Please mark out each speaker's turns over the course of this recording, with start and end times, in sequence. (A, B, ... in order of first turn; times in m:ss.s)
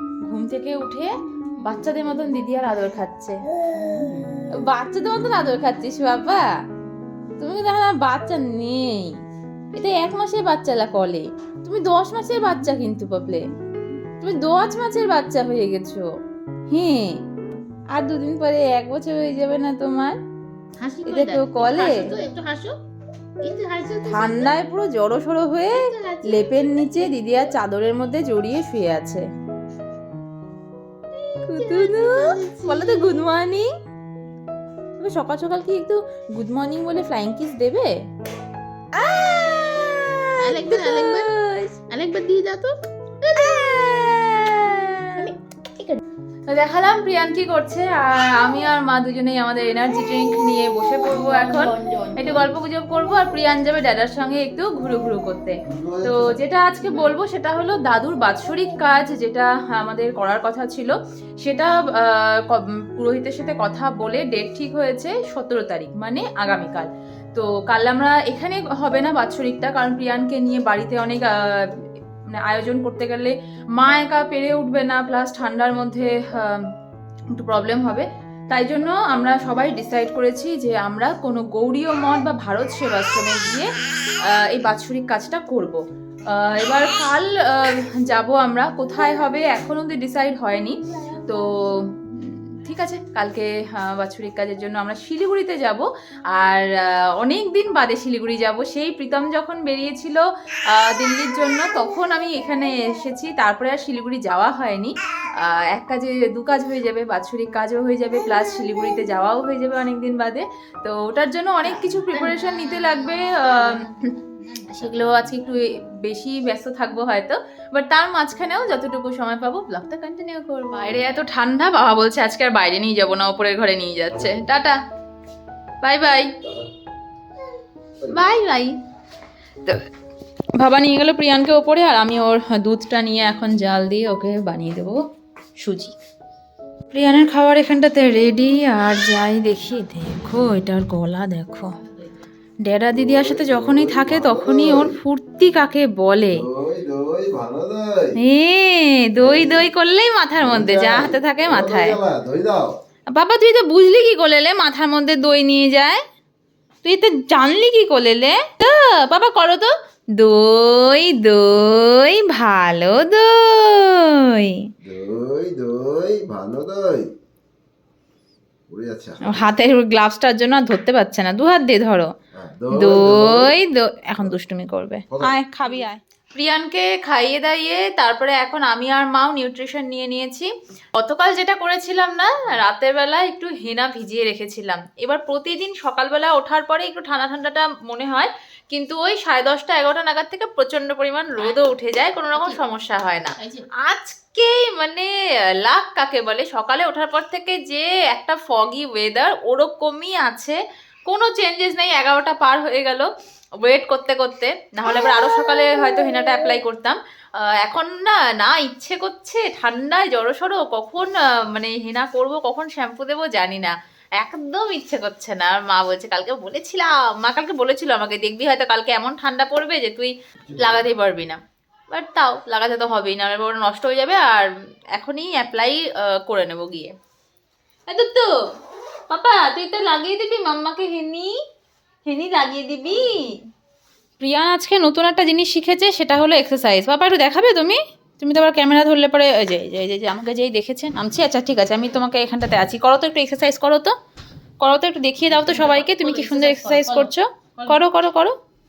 0:00.3-0:03.4 A
0:04.6-0:06.4 A
0:07.4-0:09.2 A
0:09.7-0:13.5 A
0:14.2-0:16.1 A
0:16.7-0:17.2 A
0:17.9-0:20.2 A
0:20.8-0:22.8 B
0:21.1-0:22.1 A
0:23.4-0:24.5 B
0:24.0-0:29.3 A
0:25.7-0:26.8 B
0:31.4-0:33.7 A
0:31.6-0:33.2 B
0:35.0-0:37.9 A
0:38.9-0:41.8 A
0:40.4-0:41.3 B
0:41.9-0:44.2 B
0:43.4-0:45.3 A
0:45.2-0:46.0 B
0:46.5-1:16.6 A
0:51.1-0:52.6 B
0:55.7-0:56.4 C
0:56.8-0:57.1 B
1:17.3-1:23.7 A
1:24.3-1:53.9 A
1:51.6-1:55.0 B
1:54.7-2:04.8 A
2:04.1-2:04.4 C
2:05.8-2:06.3 A
2:06.4-2:06.7 C
2:08.1-2:08.8 A
2:10.6-2:15.0 A
2:15.6-2:15.9 A
2:16.9-2:21.7 A
2:22.6-2:26.4 A
2:22.9-2:25.0 C
2:26.3-2:28.1 C
2:28.2-2:32.0 A
2:29.2-2:29.7 C
2:30.4-2:32.8 C
2:33.1-2:36.0 A
2:36.8-2:44.6 A
2:44.8-2:47.1 C
2:48.7-2:49.5 C
2:49.3-2:52.1 A
2:52.4-2:53.5 C
2:52.7-3:15.1 A
2:55.1-2:55.4 C
3:12.4-3:12.6 B
3:13.4-3:13.7 B
3:15.6-3:23.1 A
3:23.6-3:41.4 A
3:40.5-3:40.8 C
3:41.9-3:46.9 A
3:47.9-3:48.3 A
3:49.1-3:51.4 A
3:52.0-3:53.3 A
3:54.2-4:03.9 A
4:04.6-4:08.3 A
4:05.3-4:07.8 B